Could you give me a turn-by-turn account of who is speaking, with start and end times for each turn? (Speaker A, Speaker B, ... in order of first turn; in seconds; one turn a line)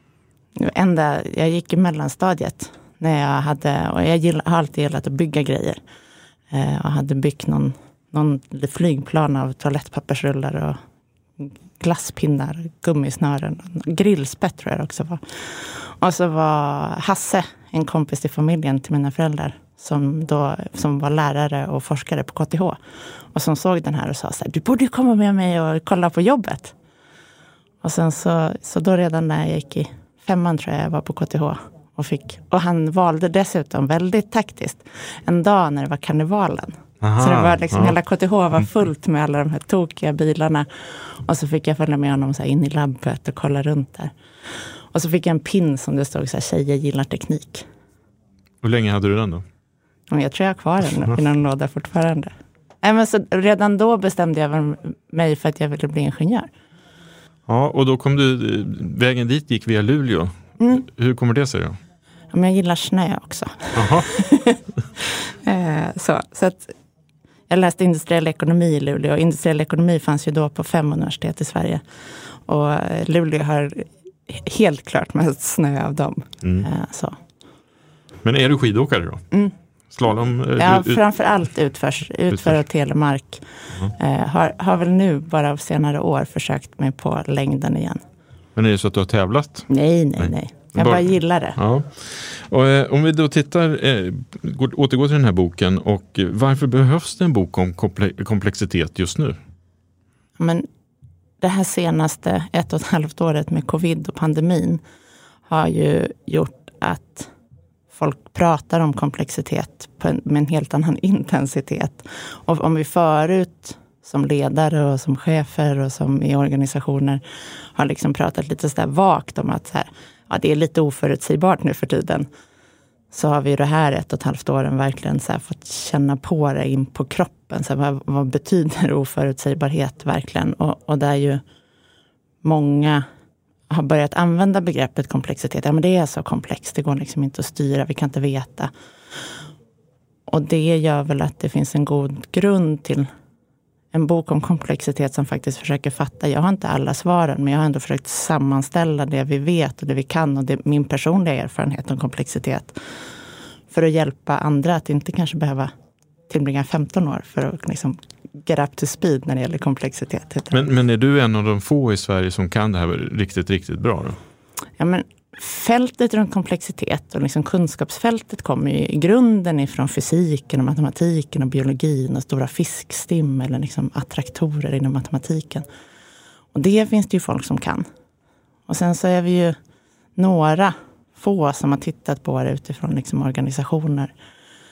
Speaker A: 0.6-5.8
Speaker A: 6.5-10.8
Speaker A: 11.4-22.8
Speaker A: 23.3-26.7
Speaker A: 27.8-44.1
Speaker B: 37.0-38.0
Speaker A: 44.9-47.6
Speaker B: 48.6-49.4
Speaker A: 50.1-56.5
Speaker B: 57.5-61.8
Speaker A: 62.3-66.7
Speaker B: 63.7-64.1
Speaker A: 67.5-71.8
Speaker A: 72.5-77.2
Speaker B: 78.2-79.2
Speaker B: 79.9-81.0
Speaker A: 80.6-83.4
Speaker B: 82.3-82.6
Speaker A: 84.0-88.0
Speaker B: 88.5-99.4
Speaker A: 89.7-91.6
Speaker A: 100.4-100.7
Speaker A: 101.4-104.8
Speaker A: 105.5-107.3
Speaker A: 107.9-117.2
Speaker A: 117.8-122.3
Speaker A: 123.1-131.4
Speaker A: 132.4-133.1
Speaker A: 133.7-138.7
Speaker A: 140.3-143.1
Speaker A: 143.9-152.8
Speaker A: 153.7-155.7
Speaker A: 156.3-160.6
Speaker B: 160.5-164.2
Speaker A: 164.8-175.7
Speaker A: 176.5-177.8
Speaker A: 178.7-179.6
Speaker A: 180.2-184.1